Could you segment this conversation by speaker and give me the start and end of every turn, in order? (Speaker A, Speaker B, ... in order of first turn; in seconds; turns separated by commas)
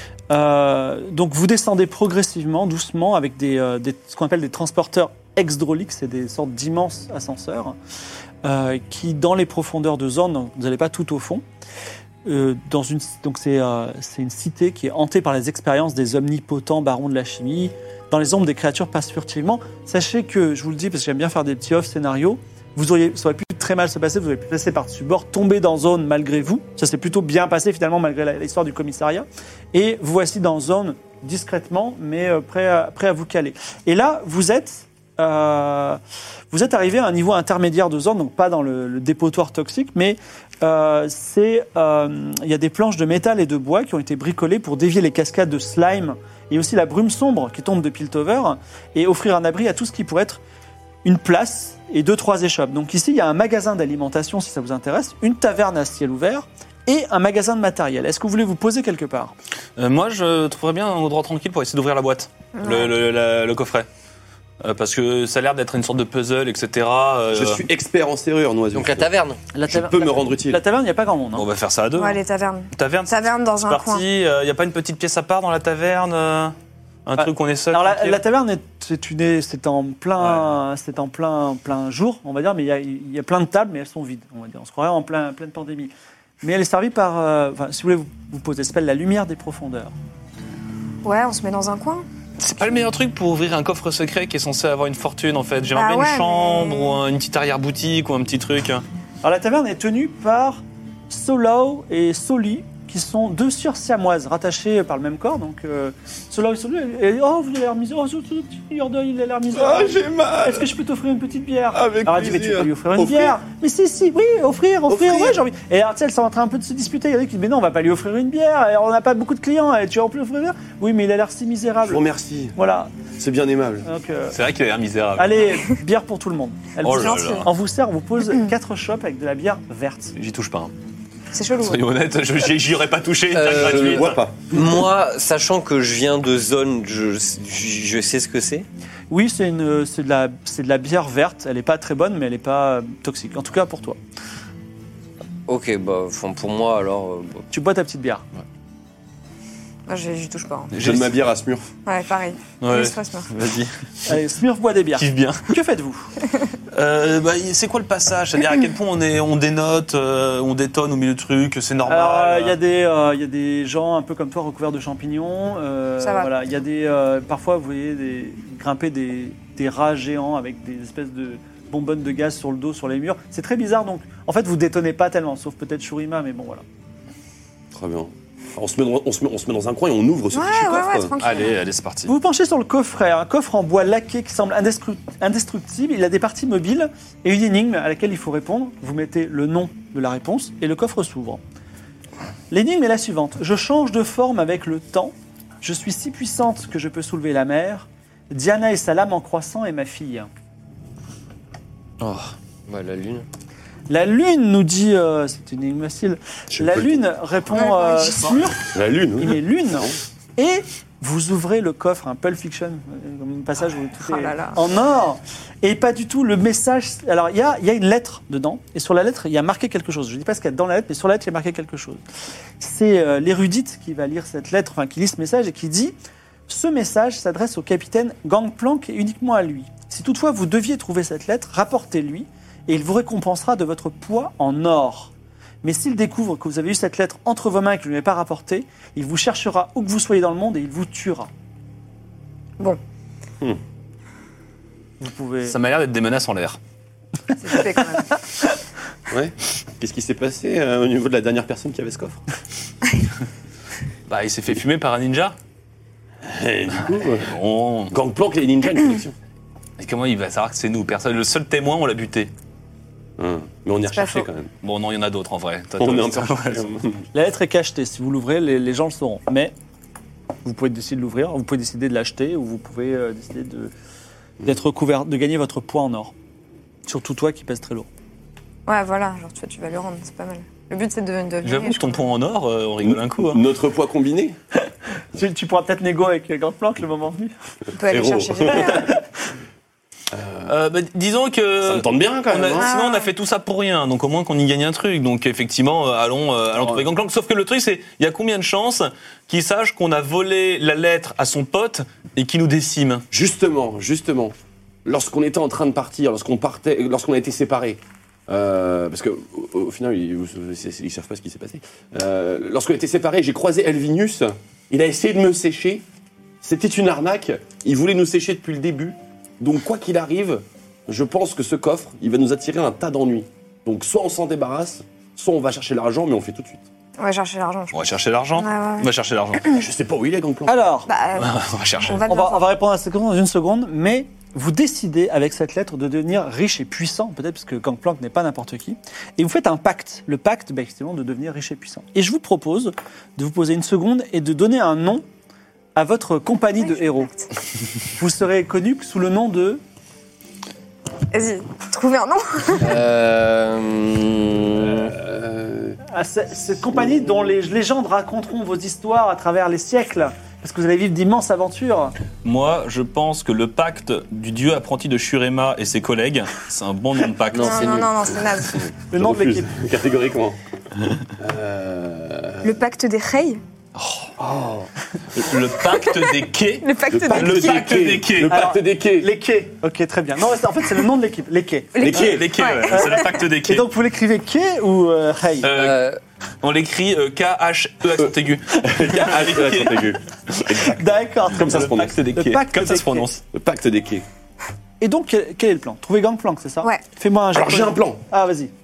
Speaker A: 0.3-7.8, Speaker A: 8.4-11.4, Speaker A: 12.2-36.0, Speaker A: 36.5-50.4, Speaker A: 51.0-59.3, Speaker B: 59.8-63.9, Speaker C: 62.6-63.0, Speaker B: 64.6-67.6, Speaker D: 67.3-69.1, Speaker E: 68.7-69.4, Speaker A: 69.5-71.5, Speaker D: 69.7-70.6, Speaker B: 71.3-72.2, Speaker C: 72.0-74.0, Speaker B: 72.7-76.5, Speaker B: 77.1-78.2, Speaker A: 77.2-89.9, Speaker C: 91.0-92.0, Speaker B: 92.4-98.8, Speaker C: 95.7-97.0, Speaker A: 99.2-122.0, Speaker D: 109.5-110.7, Speaker D: 111.7-113.3, Speaker D: 114.9-115.4, Speaker D: 121.8-122.5, Speaker A: 122.6-123.0, Speaker D: 123.1-123.9, Speaker A: 123.8-124.4, Speaker B: 124.3-125.6, Speaker A: 125.2-130.1, Speaker B: 126.8-127.5, Speaker C: 126.9-127.5, Speaker B: 130.2-130.7, Speaker C: 131.3-131.8, Speaker B: 131.6-134.2, Speaker E: 133.3-138.7, Speaker D: 133.5-134.4, Speaker A: 139.1-144.0, Speaker E: 145.5-147.5, Speaker A: 147.5-148.2, Speaker C: 149.9-150.8, Speaker B: 150.7-151.2, Speaker D: 150.8-151.7, Speaker C: 151.9-153.3, Speaker B: 152.6-154.1, Speaker A: 154.1-156.1, Speaker B: 155.0-155.6, Speaker B: 156.7-162.6, Speaker A: 161.9-176.6, Speaker C: 166.0-166.3, Speaker D: 177.7-181.1, Speaker C: 180.3-181.6, Speaker B: 181.2-182.1, Speaker A: 182.1-191.4, Speaker A: 192.5-200.3, Speaker E: 202.7-203.2, Speaker A: 203.9-222.0, Speaker D: 206.5-207.0, Speaker C: 207.5-208.4, Speaker D: 208.6-210.0, Speaker C: 214.0-214.6, Speaker A: 222.6-225.9, Speaker A: 226.5-235.1, Speaker A: 235.6-241.3, Speaker A: 245.0-245.5, Speaker B: 245.4-246.6, Speaker C: 247.4-248.1, Speaker D: 249.1-252.2, Speaker B: 254.1-255.4, Speaker D: 256.2-257.4, Speaker B: 257.1-257.9, Speaker D: 257.9-259.1, Speaker B: 259.8-262.3, Speaker D: 263.2-264.5, Speaker C: 263.9-264.3, Speaker B: 264.6-266.7, Speaker D: 265.8-267.1, Speaker A: 267.1-269.5, Speaker A: 270.4-273.7, Speaker A: 274.4-276.1, Speaker A: 276.9-277.9, Speaker C: 278.7-282.1, Speaker B: 281.4-283.4, Speaker D: 282.8-284.4, Speaker A: 285.1-287.3, Speaker C: 287.8-288.9, Speaker D: 287.9-288.9, Speaker D: 290.1-290.5, Speaker B: 290.5-303.0, Speaker D: 291.6-292.7, Speaker C: 292.5-293.1, Speaker D: 296.6-296.8, Speaker D: 303.1-304.3, Speaker D: 304.9-315.8, Speaker D: 316.4-326.6, Speaker C: 327.0-327.8, Speaker B: 327.7-329.6, Speaker C: 328.4-328.9, Speaker D: 329.5-330.5, Speaker A: 330.5-330.9, Speaker C: 330.9-332.5, Speaker B: 331.2-332.0, Speaker A: 332.1-345.0, Speaker A: 345.8-347.1, Speaker C: 346.6-347.3, Speaker A: 348.0-349.6, Speaker C: 351.1-352.7, Speaker E: 352.6-354.9, Speaker D: 354.9-355.8, Speaker A: 355.9-361.9, Speaker B: 362.2-367.9, Speaker E: 367.3-367.9, Speaker C: 367.4-368.6, Speaker A: 368.9-369.5, Speaker D: 368.9-370.4, Speaker D: 371.2-372.5, Speaker C: 372.4-373.4, Speaker B: 373.8-374.1, Speaker D: 374.2-375.3, Speaker B: 375.2-378.5, Speaker C: 375.8-377.7, Speaker D: 376.9-379.1, Speaker A: 378.2-382.0, Speaker C: 381.8-383.2, Speaker D: 381.8-382.4, Speaker B: 381.9-383.7, Speaker A: 382.7-385.5, Speaker B: 385.4-385.9, Speaker E: 385.4-386.0, Speaker B: 386.4-390.5, Speaker D: 388.0-392.0, Speaker A: 390.8-393.1, Speaker B: 391.4-393.2, Speaker D: 393.3-394.0, Speaker A: 394.8-398.5, Speaker D: 397.4-398.0